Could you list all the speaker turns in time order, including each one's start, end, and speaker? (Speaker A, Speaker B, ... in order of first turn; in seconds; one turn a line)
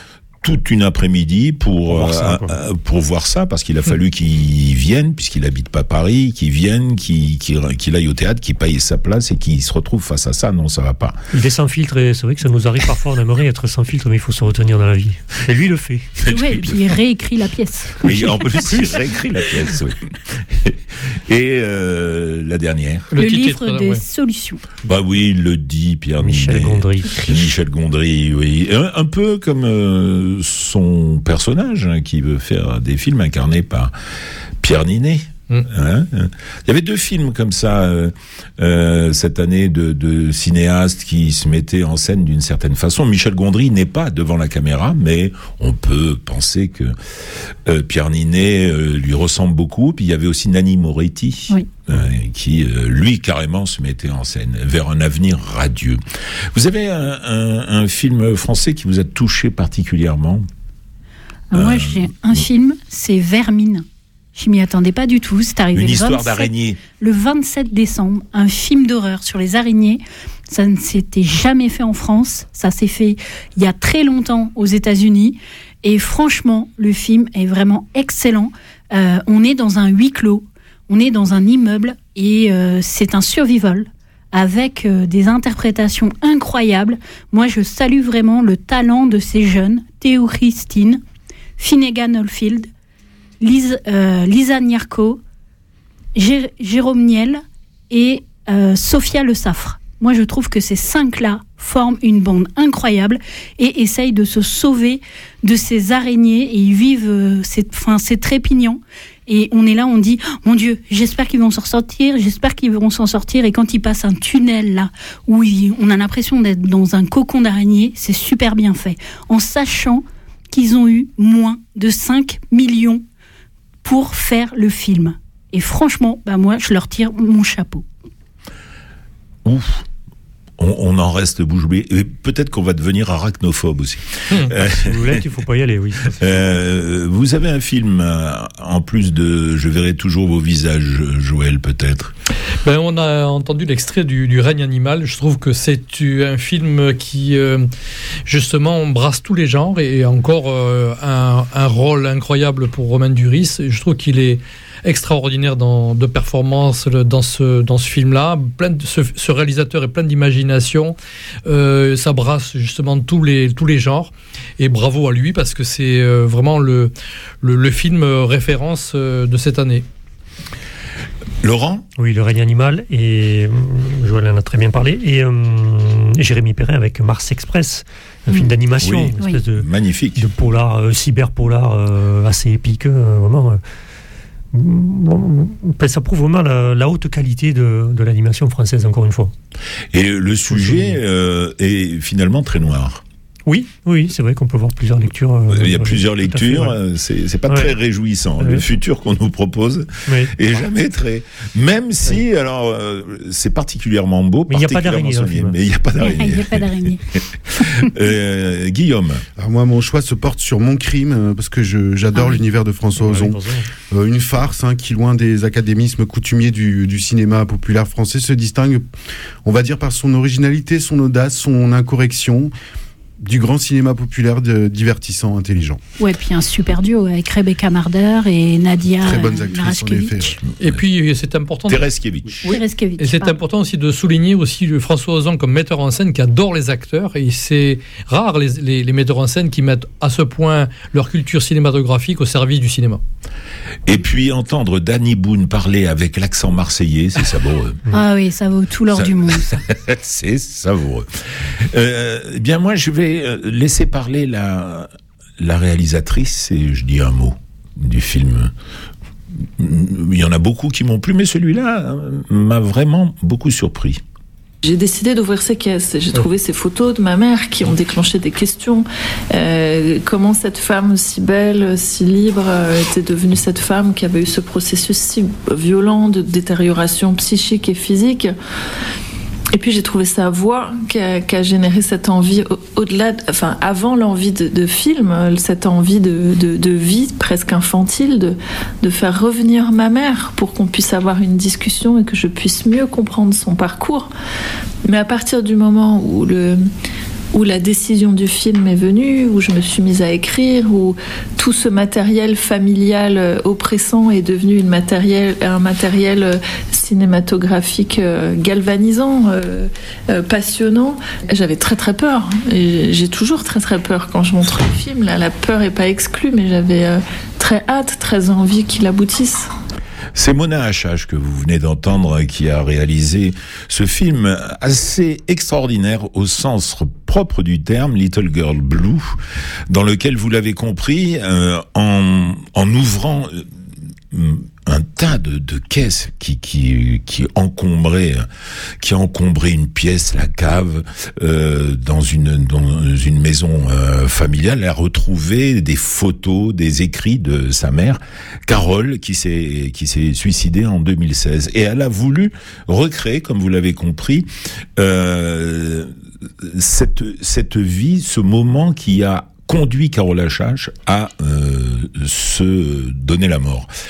Speaker A: 0.4-11.2
Speaker B: 1.9-2.6
Speaker B: 11.3-16.1
Speaker A: 16.3-16.7
Speaker C: 16.3-18.1
Speaker A: 18.0-23.1
Speaker B: 18.1-19.6
Speaker D: 23.1-24.0
Speaker C: 23.2-24.6
Speaker A: 24.8-33.9
Speaker B: 26.2-27.5
Speaker A: 34.6-47.0
Speaker A: 47.6-56.0
Speaker A: 56.5-60.5
Speaker C: 61.5-91.0
Speaker A: 61.5-62.1
Speaker A: 65.7-66.8
Speaker C: 91.6-92.7
Speaker C: 93.4-95.2
Speaker C: 96.2-123.0
Speaker C: 123.8-127.8
Speaker A: 129.4-129.8
Speaker A: 130.6-135.2
Speaker B: 134.5-136.4
Speaker A: 136.2-142.1
Speaker D: 142.6-147.7
Speaker D: 148.2-169.8
Speaker A: 171.4-171.8
Speaker B: 172.0-179.7
Speaker A: 178.8-180.2
Speaker B: 180.2-183.6
Speaker B: 184.5-189.3
Speaker A: 189.9-193.0
Speaker B: 190.5-191.0
Speaker B: 193.4-196.8
Speaker A: 195.5-209.2
Speaker B: 197.5-197.8
Speaker B: 198.4-198.7
Speaker B: 200.1-200.3
Speaker B: 204.5-205.6
Speaker C: 206.0-207.0
Speaker E: 209.4-213.4
Speaker C: 212.1-212.4
Speaker B: 213.0-213.7
Speaker E: 213.9-218.8
Speaker E: 219.4-222.5
Speaker E: 223.2-225.8
Speaker C: 226.0-230.3
Speaker E: 229.0-230.3
Speaker D: 230.6-231.9
Speaker A: 231.7-232.5
Speaker D: 232.4-243.0
Speaker C: 232.4-233.4
Speaker A: 243.8-247.8
Speaker C: 247.9-249.4
Speaker A: 248.9-258.5
Speaker A: 259.4-264.0
Speaker F: 264.6-278.3
Speaker F: 279.5-294.1
Speaker F: 294.8-296.6
Speaker F: 297.3-319.5
Speaker A: 320.1-329.2
Speaker A: 329.7-333.4
Speaker A: 334.1-338.2
Speaker A: 338.8-363.7